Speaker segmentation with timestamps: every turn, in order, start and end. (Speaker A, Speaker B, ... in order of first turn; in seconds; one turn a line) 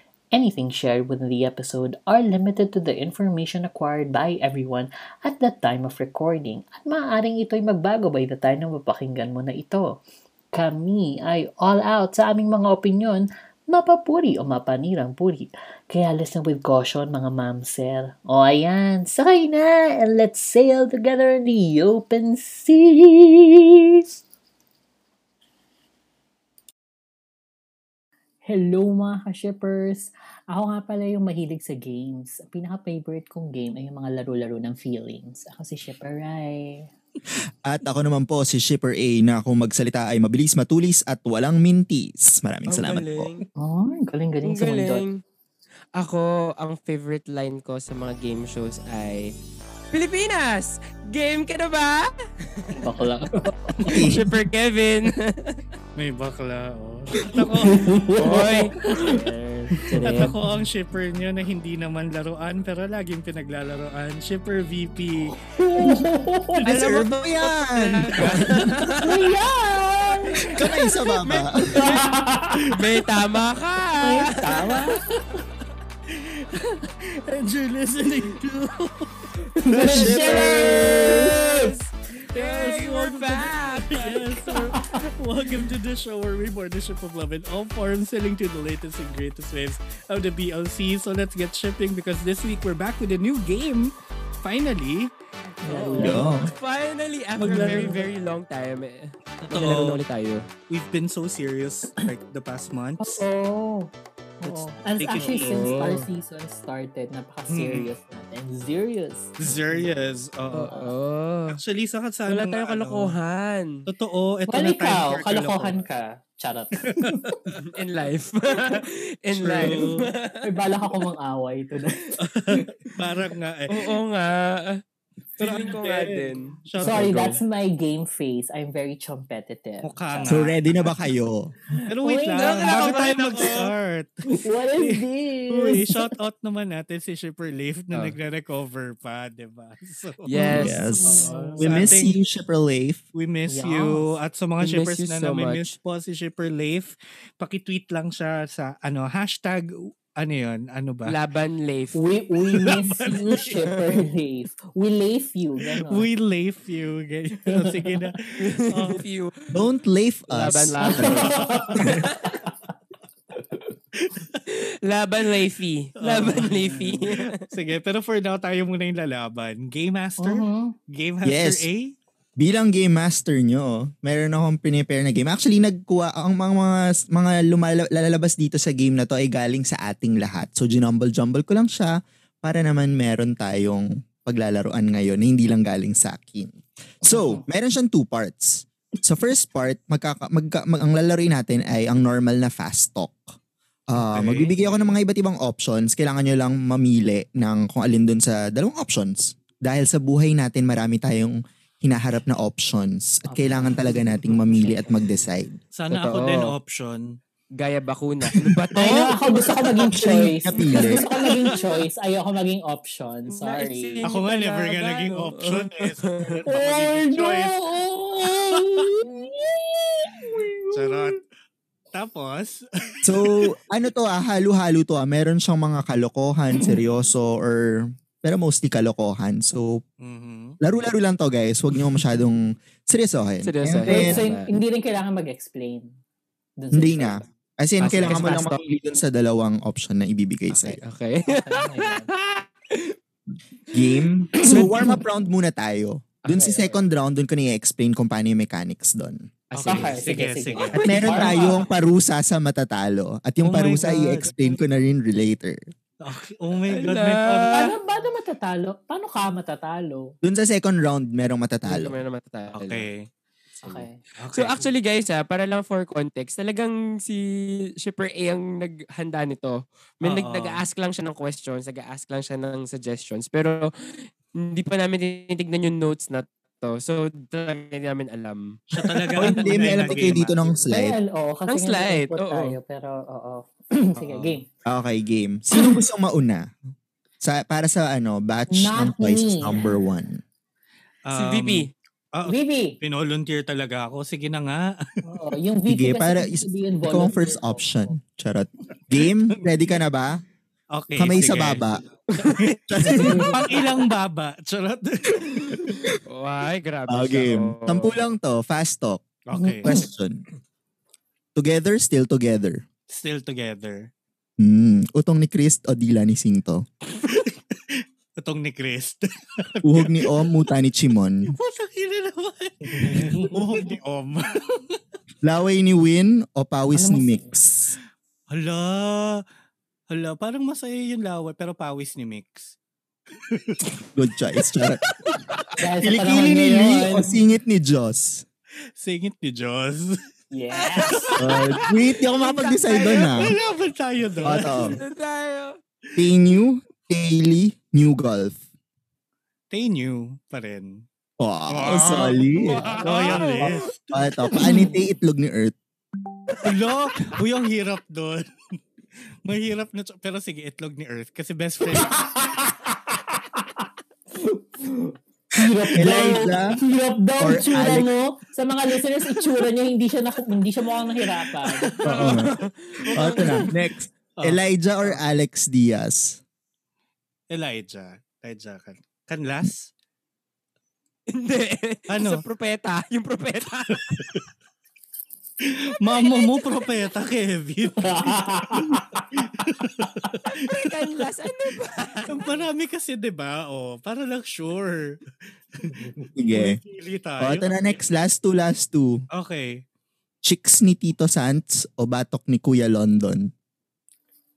Speaker A: 0.3-10.0
Speaker A: 10.5-24.0
Speaker A: 28.4-36.9
Speaker B: 37.6-43.3
Speaker C: 42.7-43.5
Speaker A: 43.6-45.0
Speaker C: 44.4-45.2
Speaker C: 45.9-49.3
Speaker C: 49.9-52.9
Speaker A: 52.8-53.8
Speaker C: 53.4-55.6
Speaker B: 53.8-54.3
Speaker D: 56.0-58.6
Speaker A: 57.6-60.4
Speaker C: 58.1-60.3
Speaker D: 60.0-66.0
Speaker A: 65.6-66.6
Speaker D: 66.5-67.2
Speaker B: 66.7-68.8
Speaker C: 67.6-69.1
Speaker D: 68.1-69.0
Speaker A: 68.9-70.9
Speaker B: 70.4-72.0
Speaker C: 71.0-72.1
Speaker A: 71.8-72.6
Speaker D: 72.6-73.0
Speaker C: 72.7-75.0
Speaker A: 74.0-75.0
Speaker D: 76.1-79.3
Speaker A: 79.7-81.7
Speaker B: 79.7-81.4
Speaker C: 79.8-84.5
Speaker D: 82.3-95.1
Speaker A: 84.7-85.0
Speaker A: 95.6-96.5
Speaker C: 95.7-100.5
Speaker B: 96.0-96.5
Speaker D: 97.4-98.0
Speaker D: 99.5-100.0
Speaker D: 100.7-103.2
Speaker A: 103.0-109.9
Speaker D: 105.0-105.8
Speaker C: 105.1-106.1
Speaker D: 107.5-107.9
Speaker D: 109.4-110.7
Speaker C: 110.5-111.6
Speaker A: 110.6-110.9
Speaker D: 111.5-113.1
Speaker C: 112.3-113.9
Speaker D: 113.9-115.8
Speaker A: 114.5-117.3
Speaker D: 116.8-117.6
Speaker C: 117.7-120.5
Speaker D: 119.4-120.1
Speaker A: 119.6-119.8
Speaker A: 120.4-123.0
Speaker D: 122.2-124.0
Speaker C: 123.7-124.8
Speaker C: 125.4-127.0
Speaker D: 125.4-127.4
Speaker A: 126.8-130.4
Speaker D: 129.8-130.9
Speaker B: 130.3-131.5
Speaker A: 131.7-132.7
Speaker D: 131.9-142.2
Speaker C: 132.3-133.7
Speaker A: 134.3-136.1
Speaker C: 140.3-141.5
Speaker A: 140.3-141.6
Speaker B: 140.5-143.0
Speaker D: 143.1-151.2
Speaker A: 143.5-144.1
Speaker C: 144.6-145.8
Speaker C: 151.1-152.0
Speaker A: 151.9-156.1
Speaker D: 152.5-153.6
Speaker D: 155.8-159.0
Speaker A: 157.5-158.1
Speaker C: 158.4-159.7
Speaker B: 159.5-162.1
Speaker C: 160.3-162.4
Speaker A: 160.8-162.0
Speaker D: 164.0-164.4
Speaker C: 164.4-167.4
Speaker D: 166.0-171.9
Speaker A: 166.4-166.9
Speaker A: 170.2-170.7
Speaker B: 171.2-171.7
Speaker B: 172.4-193.2
Speaker A: 187.0-187.4
Speaker B: 193.9-205.6
Speaker D: 193.9-195.0
Speaker A: 203.3-204.9
Speaker D: 205.7-207.1
Speaker C: 205.9-206.5
Speaker C: 207.6-209.7
Speaker D: 208.3-208.6
Speaker A: 208.7-214.0
Speaker B: 209.9-211.0
Speaker D: 211.2-211.7
Speaker C: 213.3-216.4
Speaker D: 214.0-217.7
Speaker A: 216.5-221.1
Speaker D: 218.2-218.8
Speaker D: 220.7-221.2
Speaker D: 221.9-222.9
Speaker B: 223.0-229.8
Speaker D: 230.0-230.6
Speaker B: 230.6-234.2
Speaker C: 233.4-234.5
Speaker A: 233.8-235.9
Speaker A: 236.6-237.2
Speaker B: 236.7-240.8
Speaker C: 237.8-238.6
Speaker C: 240.5-242.9
Speaker A: 241.3-242.1
Speaker B: 243.7-249.3
Speaker A: 244.3-245.0
Speaker C: 246.3-246.8
Speaker C: 249.5-251.6
Speaker D: 249.5-250.8
Speaker A: 249.7-251.4
Speaker B: 250.8-255.6
Speaker D: 253.4-254.6
Speaker D: 256.0-257.7
Speaker C: 256.7-257.7
Speaker A: 257.5-260.1
Speaker B: 260.2-262.0
Speaker C: 261.7-262.9
Speaker D: 262.5-263.1
Speaker A: 263.6-264.0
Speaker C: 263.6-273.7
Speaker D: 264.2-264.7
Speaker D: 270.0-270.6
Speaker C: 274.3-278.6
Speaker D: 278.7-280.4
Speaker B: 279.1-281.0
Speaker C: 279.7-280.1
Speaker A: 280.6-284.4
Speaker C: 281.5-282.6
Speaker D: 284.0-284.4
Speaker B: 284.6-286.5
Speaker A: 285.5-285.8
Speaker B: 287.2-290.2
Speaker A: 288.5-289.7
Speaker D: 291.1-294.7
Speaker C: 291.1-291.7
Speaker A: 292.2-292.8
Speaker A: 295.0-297.9
Speaker B: 295.7-300.2
Speaker D: 300.7-302.5
Speaker B: 300.9-301.8
Speaker C: 302.1-303.3
Speaker B: 302.7-303.4
Speaker A: 302.8-303.4
Speaker D: 303.1-305.8
Speaker C: 306.1-308.0
Speaker B: 306.9-309.0
Speaker D: 309.3-309.7
Speaker A: 309.4-309.9
Speaker B: 309.6-310.2
Speaker B: 311.3-312.6
Speaker D: 312.9-313.9
Speaker B: 314.4-316.6
Speaker D: 317.0-320.2
Speaker B: 319.6-321.3
Speaker D: 321.3-324.8
Speaker A: 322.7-323.4
Speaker B: 325.2-327.8
Speaker A: 326.7-327.3
Speaker D: 328.3-329.2
Speaker D: 329.9-332.6
Speaker D: 333.3-333.7
Speaker B: 333.9-334.8
Speaker C: 335.1-335.5
Speaker A: 335.6-337.1
Speaker B: 335.8-338.2
Speaker D: 338.8-340.0
Speaker A: 340.3-341.1
Speaker C: 340.6-343.4
Speaker B: 341.2-343.4
Speaker D: 343.1-344.8
Speaker B: 344.2-344.8
Speaker C: 344.3-345.6
Speaker B: 345.9-348.4
Speaker D: 349.5-350.9
Speaker B: 351.2-352.6
Speaker D: 351.5-354.2
Speaker C: 351.7-353.7
Speaker B: 353.4-355.5
Speaker A: 354.4-354.8
Speaker D: 356.4-358.3
Speaker D: 359.2-362.0
Speaker A: 361.7-371.7
Speaker B: 365.7-366.6
Speaker B: 367.2-367.9
Speaker D: 371.2-372.3
Speaker B: 371.8-372.3
Speaker C: 371.8-373.5
Speaker B: 372.9-376.2
Speaker D: 373.0-373.5
Speaker D: 374.2-375.0
Speaker D: 377.3-379.7
Speaker C: 381.1-384.1
Speaker D: 381.9-382.2
Speaker D: 383.7-384.2
Speaker D: 385.4-391.1
Speaker C: 385.9-386.9
Speaker A: 387.8-389.4
Speaker C: 390.2-392.4
Speaker D: 392.1-395.0
Speaker D: 395.6-397.8
Speaker B: 396.1-396.6
Speaker B: 397.2-399.0
Speaker D: 399.1-399.6
Speaker B: 400.2-403.3